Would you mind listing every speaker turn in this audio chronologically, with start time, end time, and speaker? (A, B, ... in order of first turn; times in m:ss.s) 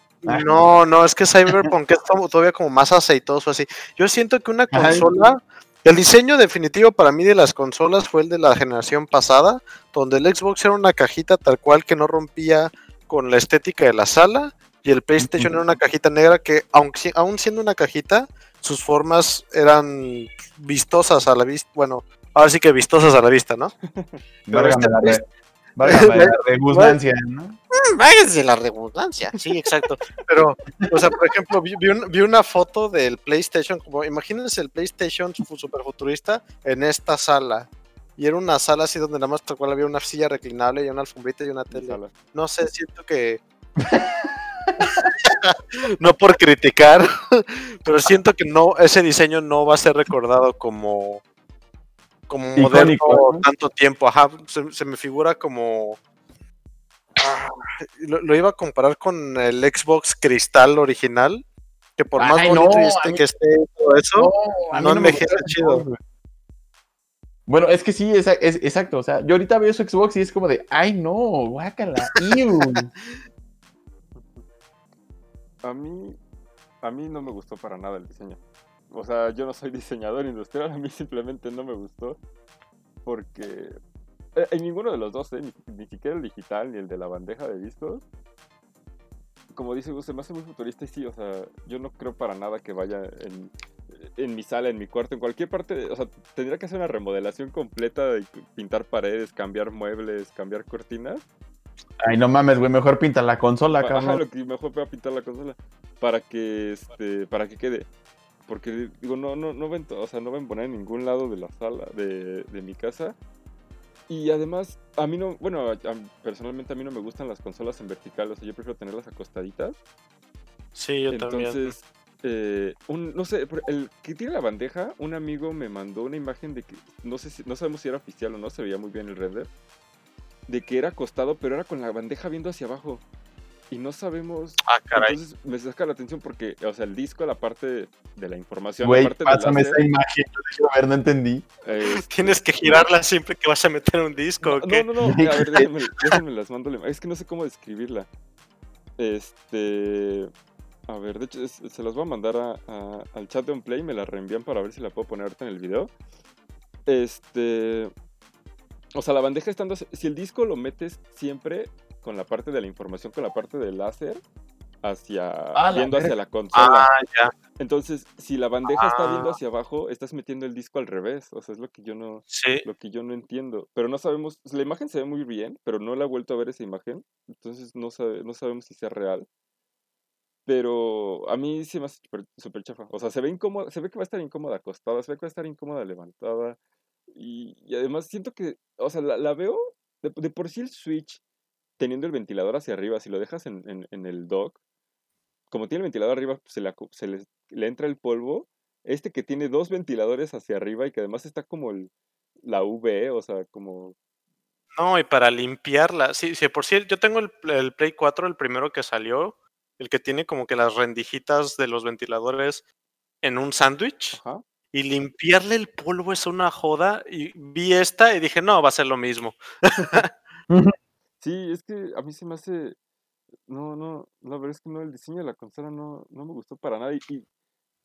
0:00.2-0:23.7 A
0:00.2-0:00.6 B
0:04.7-0:05.1 B
0:15.2-0:15.5 B
0:23.9-0:24.2 C
0:24.5-0:25.2 B
0:24.5-0:25.2 A
0:25.7-0:27.6 B
0:25.8-0:26.9 A
0:28.0-0:43.4 A
0:41.7-0:42.1 C
0:43.8-0:45.0 B
0:45.3-0:51.2 A
0:52.3-0:56.0 A
0:52.6-0:53.4 B
0:57.2-1:01.4 A
1:02.0-1:05.8 A
1:02.2-1:03.2 B
1:04.2-1:06.0 B
1:07.5-1:12.9 B
1:14.1-1:14.4 C
1:15.6-1:16.2 C
1:16.8-1:22.2 C
1:23.0-1:23.7 C
1:24.4-1:28.0 C
1:29.5-1:41.2 C
1:42.0-1:44.2 B
1:43.8-1:47.9 C
1:48.5-1:53.2 C
1:54.1-1:59.8 C
2:00.7-2:01.7 A
2:01.1-2:09.5 C
2:10.5-2:13.0 C
2:13.7-2:19.8 C
2:14.7-2:15.2 A
2:18.8-2:21.5 B
2:21.6-2:22.8 C
2:21.8-2:24.9 A
2:24.4-2:28.1 C
2:25.1-2:25.6 B
2:29.0-2:30.3 C
2:30.9-2:35.9 C
2:36.9-2:37.9 C
2:39.0-2:44.2 C
2:44.8-2:46.9 C
2:45.6-2:46.1 B
2:46.5-2:47.3 A
2:47.6-2:59.3 C
2:48.7-2:49.3 A
2:52.3-2:52.6 A
3:00.4-3:06.6 C
3:07.1-3:11.2 C
3:11.8-3:14.6 C
3:15.5-3:21.9 C
3:22.4-3:24.0 C
3:24.8-3:32.6 A
3:33.2-3:34.2 A
3:34.1-3:34.4 C
3:34.7-3:40.1 A
3:41.2-3:42.8 C
3:43.5-3:47.2 C